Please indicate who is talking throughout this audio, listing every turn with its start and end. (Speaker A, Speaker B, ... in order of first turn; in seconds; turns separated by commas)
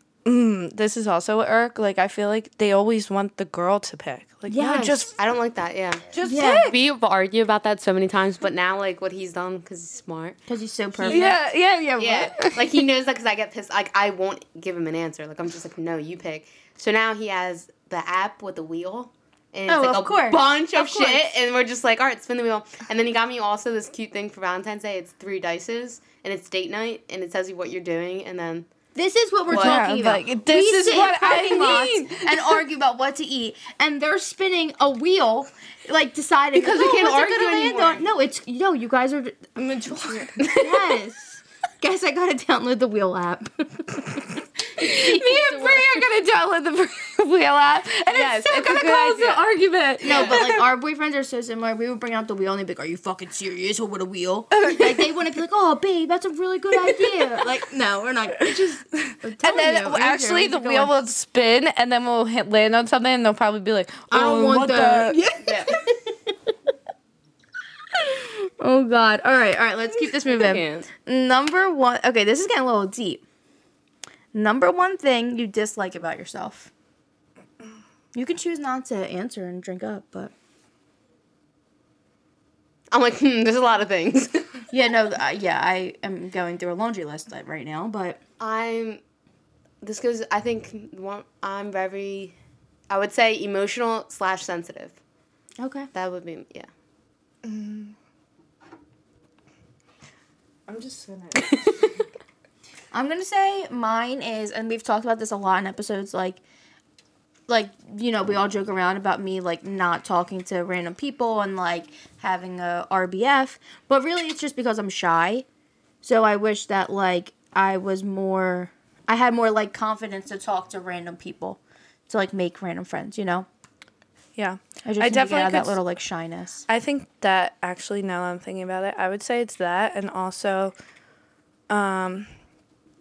Speaker A: 0.2-5.1, Speaker B: 4.5-5.1, Speaker C: 5.2-10.4, Speaker A: 6.1-6.8, Speaker B: 6.2-6.7, Speaker B: 10.5-11.3, Speaker C: 11.0-11.3, Speaker A: 11.1-12.8, Speaker C: 12.0-28.7, Speaker B: 19.7-21.2, Speaker B: 28.9-39.5, Speaker C: 29.5-29.8, Speaker A: 29.5-32.6, Speaker C: 36.5-38.0, Speaker A: 39.5-41.0, Speaker B: 40.6-46.0, Speaker A: 44.8-50.6, Speaker C: 48.1-49.3, Speaker B: 48.6-60.9, Speaker C: 50.0-50.4, Speaker A: 54.5-55.1, Speaker A: 56.7-57.5, Speaker A: 58.6-65.3, Speaker B: 64.1-66.3, Speaker C: 65.4-65.7, Speaker B: 67.9-73.2, Speaker C: 70.3-70.9, Speaker B: 74.3-76.7, Speaker B: 78.1-80.3, Speaker C: 82.9-84.6, Speaker B: 84.7-88.2, Speaker C: 88.4-89.0, Speaker C: 89.8-92.3, Speaker C: 92.9-95.0, Speaker B: 95.6-95.9, Speaker C: 95.9-96.7, Speaker A: 97.4-98.0, Speaker A: 100.7-102.0, Speaker B: 102.9-106.4, Speaker B: 107.5-115.5, Speaker B: 116.0-123.5, Speaker A: 124.3-125.8, Speaker B: 124.8-126.6, Speaker A: 126.7-130.7, Speaker A: 131.7-132.3